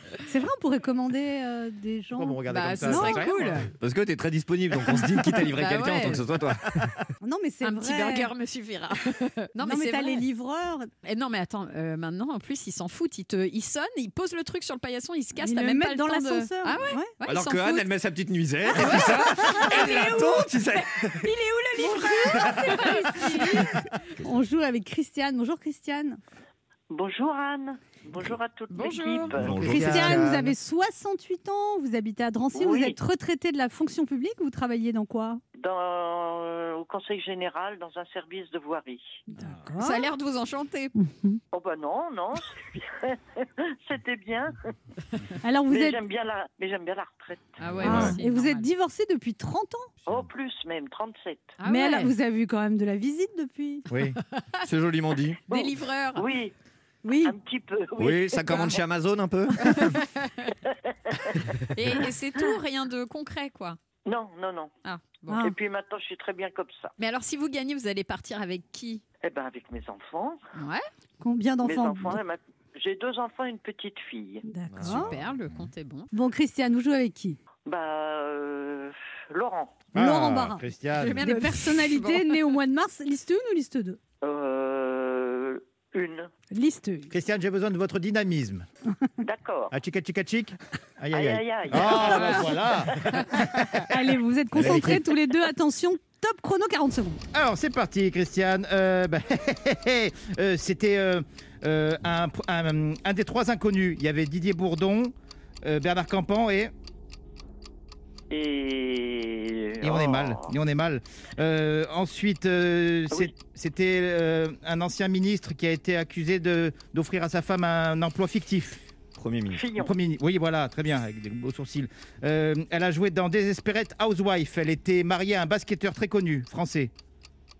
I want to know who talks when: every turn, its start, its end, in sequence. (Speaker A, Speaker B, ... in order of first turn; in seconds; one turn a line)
Speaker A: 0.2-3.2
Speaker B: 2.1-3.6
Speaker C: 2.5-3.7
Speaker D: 3.8-7.0
Speaker C: 5.0-6.2
Speaker A: 7.2-8.3
Speaker C: 7.6-10.2
Speaker A: 9.6-10.9
Speaker C: 11.0-17.9
Speaker A: 15.4-17.1
Speaker D: 17.2-21.3
Speaker C: 18.7-23.7
Speaker A: 18.7-20.0
Speaker A: 21.8-26.2
Speaker D: 22.3-22.8
Speaker D: 23.4-23.7
Speaker E: 26.9-30.0
Speaker C: 28.7-29.4
Speaker D: 29.3-30.4
Speaker B: 29.4-30.5
Speaker A: 29.6-35.4
Speaker E: 32.5-33.0
Speaker E: 35.6-39.0
Speaker A: 39.3-40.1
Speaker C: 39.8-40.9
Speaker A: 41.0-41.4
Speaker E: 41.5-44.5
Speaker A: 45.4-46.0
Speaker E: 45.7-48.0
Speaker C: 47.6-48.7
Speaker B: 47.7-48.1
Speaker D: 47.8-48.1
Speaker A: 47.8-49.9
Speaker E: 50.1-51.6
Speaker C: 51.6-52.1
Speaker A: 51.6-53.9
Speaker B: 53.9-54.2
Speaker D: 54.6-55.4
Speaker C: 55.5-56.2
Speaker E: 55.5-56.5
Speaker A: 57.0-57.3
Speaker E: 57.2-58.8
Speaker D: 58.0-60.0
Speaker C: 59.7-60.3
Speaker E: 60.9-61.5
Speaker C: 61.7-63.8
Speaker E: 64.0-64.7
Speaker C: 64.8-65.3
Speaker E: 65.3-66.9
Speaker C: 67.0-69.0
Speaker E: 69.2-70.4
Speaker C: 70.6-70.8
Speaker A: 71.2-72.2
Speaker E: 71.6-74.5
Speaker A: 74.5-75.1
Speaker D: 74.7-75.2
Speaker C: 74.8-76.1
Speaker A: 76.1-77.4
Speaker E: 77.7-79.9
Speaker B: 79.9-81.2
Speaker A: 79.9-80.7
Speaker C: 81.0-82.4
Speaker A: 81.2-84.0
Speaker E: 84.2-86.3
Speaker A: 86.5-87.1
Speaker B: 87.1-88.7
Speaker E: 89.2-89.7
Speaker B: 89.7-93.6
Speaker E: 91.1-93.2
Speaker C: 92.0-92.5
Speaker A: 93.9-97.2
Speaker B: 94.5-95.0
Speaker B: 97.3-106.7
Speaker E: 108.3-110.5
Speaker B: 109.8-118.8
Speaker D: 119.2-119.7
Speaker E: 119.5-119.9
Speaker B: 119.7-126.9